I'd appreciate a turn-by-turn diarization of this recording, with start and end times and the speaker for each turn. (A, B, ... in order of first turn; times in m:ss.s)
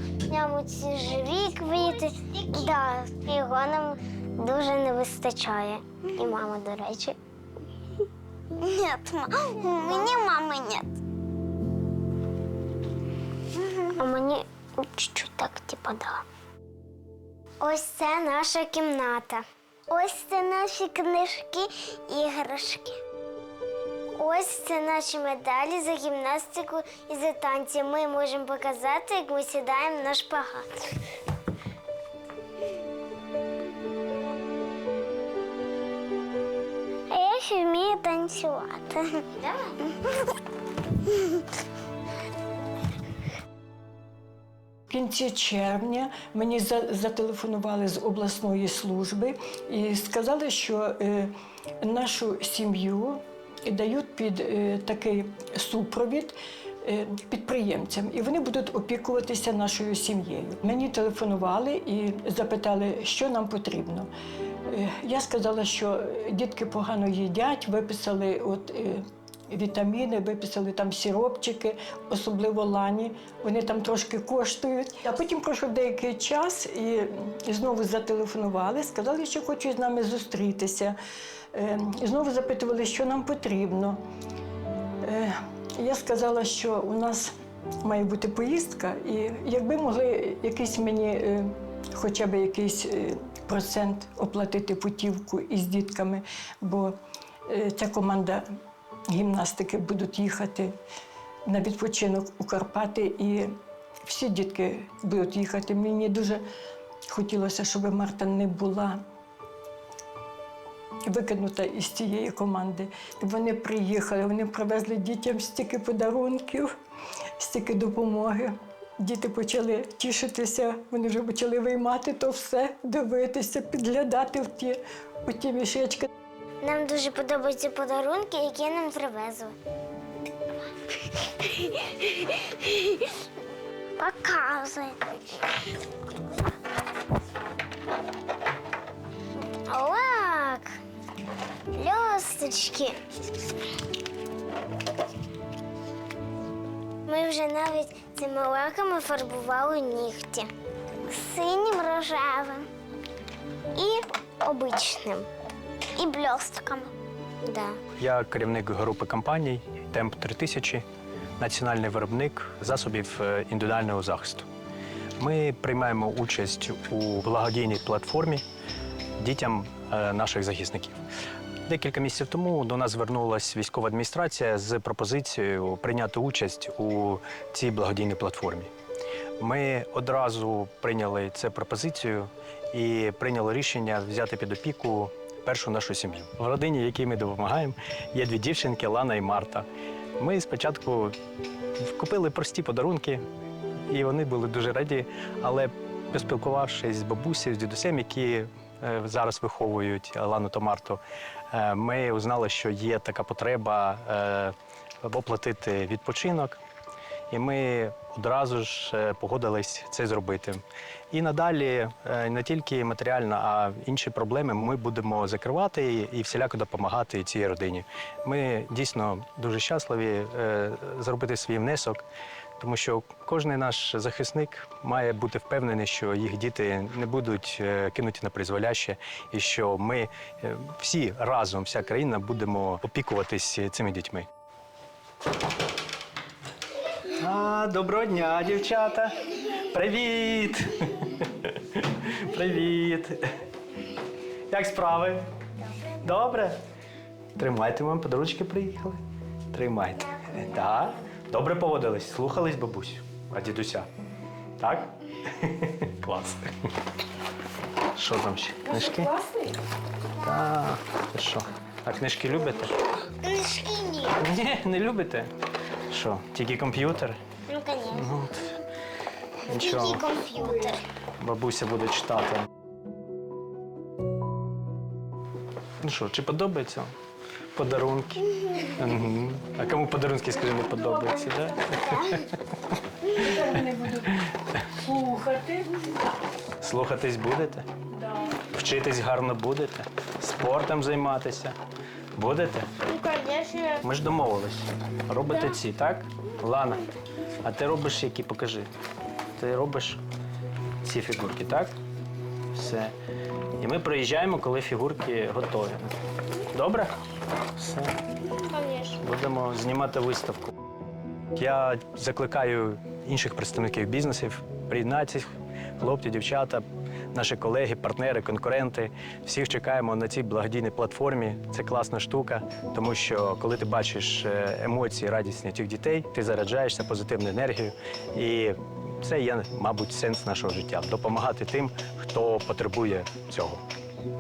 0:00.3-0:07.2 A
0:08.6-0:10.9 A
0:13.6-0:16.2 A
0:17.6-0:23.0 A
0:24.2-0:31.0 A
0:37.1-0:40.1 A
0:44.9-1:04.1 B
1:04.7-1:21.0 B
1:21.5-1:24.0 B
1:25.0-1:27.3 B
1:27.8-1:37.0 B
1:37.5-1:38.4 B
1:39.1-1:40.7 B
1:41.5-1:43.5 B
1:44.0-1:46.4 B
1:47.1-1:49.0 B
1:51.0-1:56.7 B
1:57.4-2:06.1 B
2:06.6-2:09.6 A
2:11.4-2:13.1 A
2:14.0-2:15.2 A
2:19.7-2:20.7 A
2:21.7-2:23.0 A
2:27.1-2:30.5 A
2:31.1-2:32.7 A
2:33.8-2:35.3 A
2:36.0-2:36.9 A
2:37.4-2:37.8 A
2:38.0-2:40.8 C
2:41.4-2:44.5 C
2:45.2-2:48.4 C
2:49.2-2:51.0 C
2:51.7-2:58.7 C
2:59.4-3:09.7 C
3:10.2-3:11.2 C
3:11.8-3:13.2 C
3:13.9-3:21.0 C
3:21.5-3:26.6 C
3:27.3-3:42.0 C
3:42.6-3:54.3 C
3:57.2-4:03.2 C
4:04.5-4:05.2 C
4:06.0-4:06.6 C
4:07.4-4:09.0 C
4:09.5-4:13.9 C
4:14.6-4:16.5 C
4:18.0-4:19.1 C
4:19.2-4:19.4 B
4:20.2-4:22.8 C
4:23.2-4:24.2 A
4:24.2-4:25.3 C
4:25.9-4:27.2 C
4:27.5-4:28.2 A
4:27.9-4:28.6 C
4:29.4-4:30.0 C
4:29.5-4:30.8 A
4:31.2-4:32.5 C
4:35.8-4:36.9 C
4:37.6-4:42.4 C
4:43.2-4:44.1 B
4:44.1-4:44.6 C
4:44.7-4:45.8 B
4:46.6-4:47.7 C
4:48.4-4:51.6 C
4:52.2-4:52.7 C
4:53.1-4:53.6 A
4:53.8-4:56.9 C
4:57.4-4:58.7 C
4:59.4-5:00.0 C
5:00.8-5:01.7 C
5:02.5-5:02.9 C
5:03.6-5:05.9 C
5:06.5-5:06.9 C
5:07.6-5:08.0 C
5:08.6-5:10.5 C
5:11.4-5:33.6 C